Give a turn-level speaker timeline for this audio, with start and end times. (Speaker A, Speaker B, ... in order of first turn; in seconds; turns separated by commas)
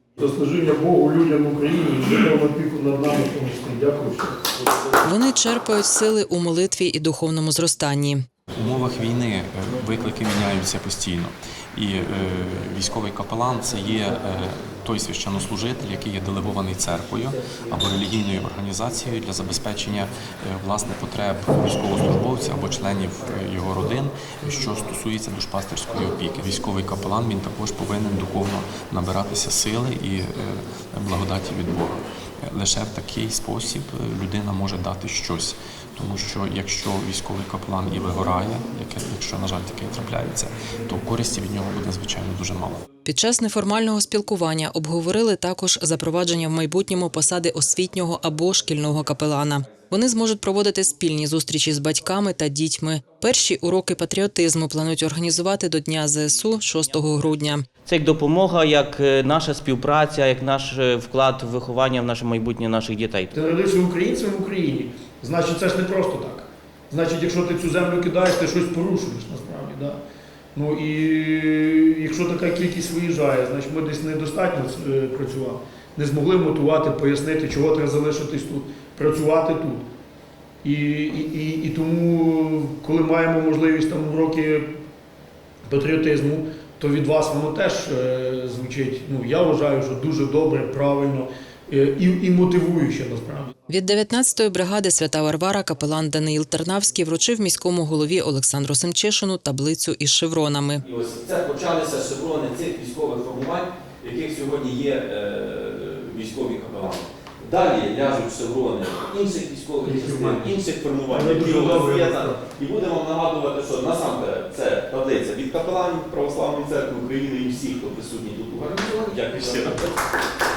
Speaker A: 0.2-4.4, Speaker B: 5.0-8.2, Speaker C: 8.5-42.8, Speaker B: 43.0-57.6, Speaker D: 57.9-63.3, Speaker A: 63.3-70.0, Speaker A: 70.5-79.8, Speaker A: 80.6-84.7, Speaker A: 85.7-93.5, Speaker B: 93.7-100.8, Speaker E: 100.8-119.9, Speaker A: 109.8-112.5